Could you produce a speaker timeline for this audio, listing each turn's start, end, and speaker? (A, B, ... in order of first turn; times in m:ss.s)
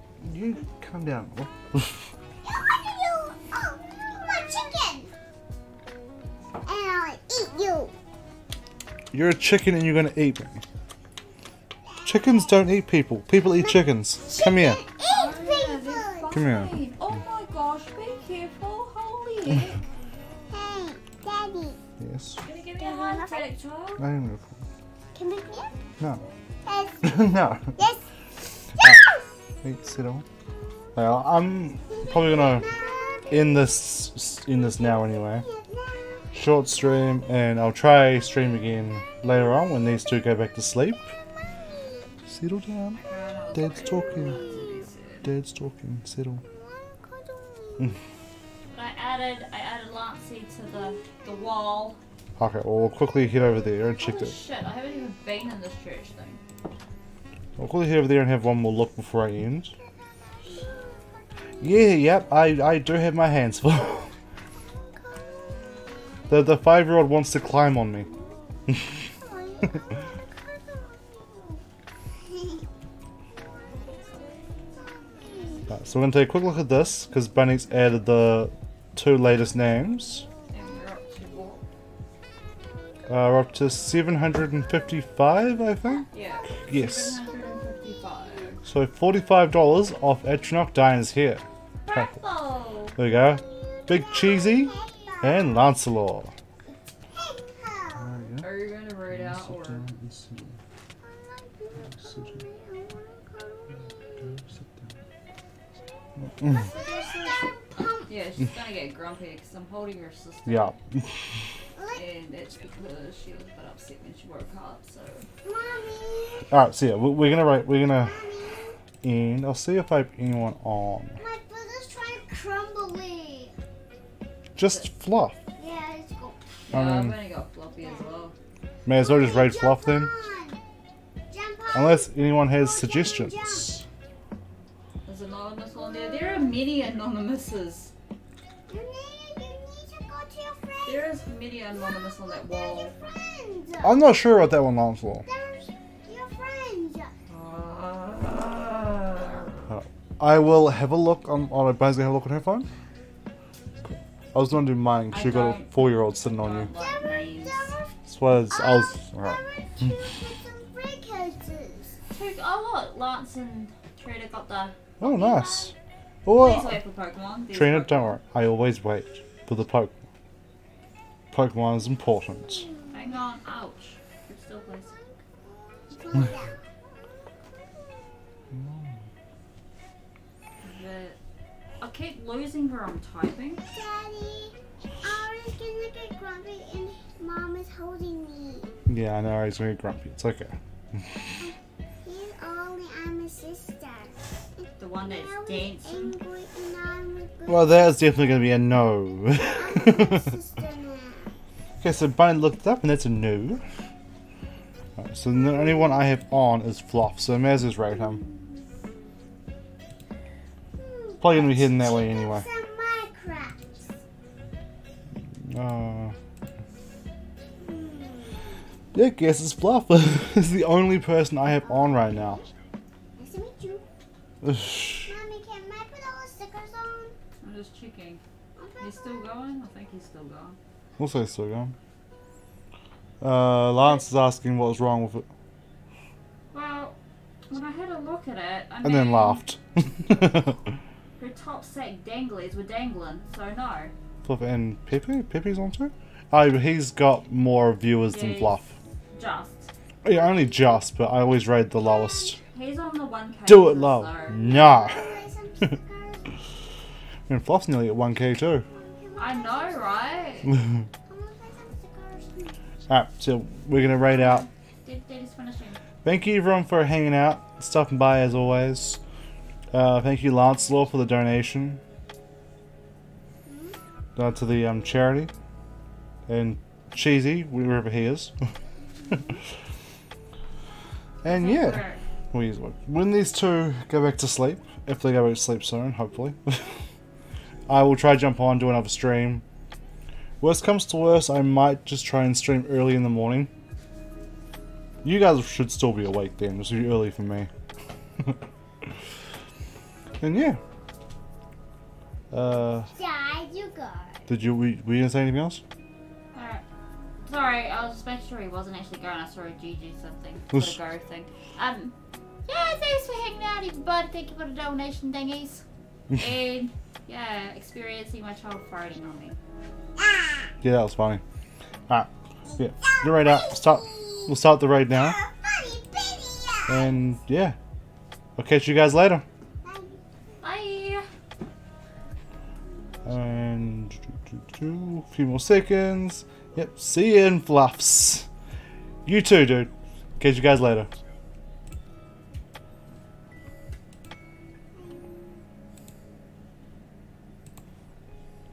0:00.2-0:02.0 A
0:02.4-0:05.1 B
0:06.6-0:07.9 B
0:09.1-0:10.6 A
0:12.0-0:12.3 B
0:12.0-0:14.8 A
0:13.5-0:13.8 B
0:14.3-0:16.4 B
0:15.0-0:19.8 C
0:16.3-0:16.7 A
0:20.5-0:21.8 B
0:22.0-0:22.4 A
0:22.4-0:24.0 C
0:22.8-0:23.5 B
0:24.0-0:24.6 A
0:25.1-0:25.7 B
0:26.6-0:29.3 B
0:27.0-0:27.7 A
0:29.6-0:30.2 A
0:31.0-0:32.7 A
0:31.9-0:33.6 B
0:33.3-0:35.4 A
0:34.7-0:36.3 B
0:36.3-0:41.1 A
0:42.3-0:43.0 A
0:42.9-0:45.3 C
0:43.5-0:44.4 A
0:44.2-0:44.8 B
0:45.2-0:46.4 A
0:46.4-0:48.0 B
0:48.7-0:52.0 C
0:52.4-0:54.3 A
0:54.0-0:56.4 C
0:57.6-0:59.7 A
1:00.2-1:01.8 B
1:01.6-1:04.1 A
1:04.9-1:05.9 B
1:06.3-1:08.1 A
1:09.0-1:11.6 B
1:13.5-1:15.7 B
1:15.7-1:20.3 A
1:20.5-1:21.6 C
1:23.1-1:26.1 A
1:26.1-1:28.6 C
1:26.6-1:27.2 A
1:28.6-1:32.1 A
1:31.9-1:33.0 C
1:33.0-1:36.3 A
1:33.2-1:35.5 B
1:37.2-1:38.1 B
1:38.0-1:38.5 A
1:38.4-1:39.9 C
1:39.1-1:40.6 A
1:41.0-1:44.4 B
1:44.2-1:44.9 A
1:45.8-1:48.1 B
1:48.1-1:50.8 C
1:50.4-1:51.0 A
1:51.8-1:52.0 B
1:51.9-1:55.3 C
1:55.4-1:56.4 B
1:56.5-1:58.2 A
1:57.8-1:58.7 B
1:59.0-2:01.2 A
2:01.2-2:03.6 B
2:04.6-2:05.4 A
2:05.6-2:06.6 B
2:06.7-2:08.3 C
2:06.7-2:07.2 A
2:07.7-2:08.0 B
2:08.8-2:10.1 A
2:08.9-2:10.6 B
2:11.3-2:13.8 B
2:11.7-2:13.8 A
2:15.0-2:17.9 C
2:15.7-2:16.5 B
2:18.7-2:21.2 B
2:20.8-2:22.9 C
2:21.9-2:24.1 B
2:23.8-2:25.3 A
2:25.2-2:27.1 B
2:27.3-2:29.6 C
2:29.7-2:32.7 A
2:34.3-2:36.7 A
2:35.1-2:37.8 C
2:36.7-2:37.9 B
2:38.1-2:39.4 A
2:38.5-2:42.0 B
2:42.1-2:45.7 C
2:45.0-2:45.7 A
2:45.0-2:45.4 B
2:46.2-2:46.8 A
2:46.3-2:48.2 C
2:47.5-2:50.0 A
2:51.3-2:52.6 A
2:52.6-2:53.2 B
2:52.9-2:55.0 C
2:54.9-2:56.6 B
2:58.6-2:58.9 A
3:00.6-3:01.2 C
3:01.8-3:03.6 C
3:03.6-3:08.7 B
3:08.9-3:11.1 A
3:11.4-3:17.8 B
3:14.8-3:16.1 C
3:17.5-3:20.3 A
3:19.6-3:21.3 B
3:21.8-3:23.6 A
3:25.0-3:28.2 A
3:25.4-3:26.0 B
3:27.9-3:28.6 B
3:30.8-3:33.9 B
3:31.2-3:32.5 A
3:35.4-3:36.1 A
3:37.6-3:38.4 B
3:38.9-3:42.4 A
3:41.6-3:42.5 B
3:43.2-3:43.8 B
3:44.4-3:45.1 A
3:45.0-3:47.2 B
3:47.4-3:48.2 C
3:48.6-3:49.2 B
3:48.8-3:50.6 C
3:51.0-3:51.7 A
3:53.2-3:55.3 A
3:56.5-3:57.0 C
3:57.5-3:59.4 C
3:58.8-4:00.6 A
4:01.2-4:03.9 C
4:04.2-4:08.7 A
4:08.1-4:08.6 C
4:09.2-4:09.7 C
4:10.0-4:12.4 A
4:11.8-4:12.4 B
4:12.5-4:14.5 C
4:13.5-4:15.2 A
4:14.3-4:16.4 B
4:17.3-4:18.6 A
4:18.6-4:20.2 B
4:19.2-4:20.5 C
4:21.0-4:22.6 B
4:22.9-4:24.5 A
4:24.1-4:25.8 C
4:26.0-4:29.0 A
4:29.7-4:31.8 A
4:33.4-4:33.8 B
4:34.2-4:35.3 A
4:36.3-4:38.3 A
4:41.2-4:46.8 A
4:41.2-4:42.0 C
4:47.7-4:49.4 A
4:50.4-4:53.5 A
4:55.0-4:57.5 A
5:00.2-5:00.6 A
5:02.3-5:02.9 A
5:02.9-5:04.3 B
5:04.3-5:05.6 A
5:06.3-5:06.6 C
5:07.2-5:11.9 C
5:12.5-5:15.6 C
5:16.2-5:19.4 C
5:20.0-5:20.5 B
5:20.6-5:21.2 A
5:21.9-5:25.2 A
5:22.5-5:24.3 B
5:24.9-5:26.9 B
5:26.7-5:27.6 A
5:28.4-5:29.2 A
5:29.6-5:30.0 B
5:30.4-5:31.1 C
5:33.0-5:38.3 A
5:39.0-5:40.9 A
5:44.7-5:45.3 B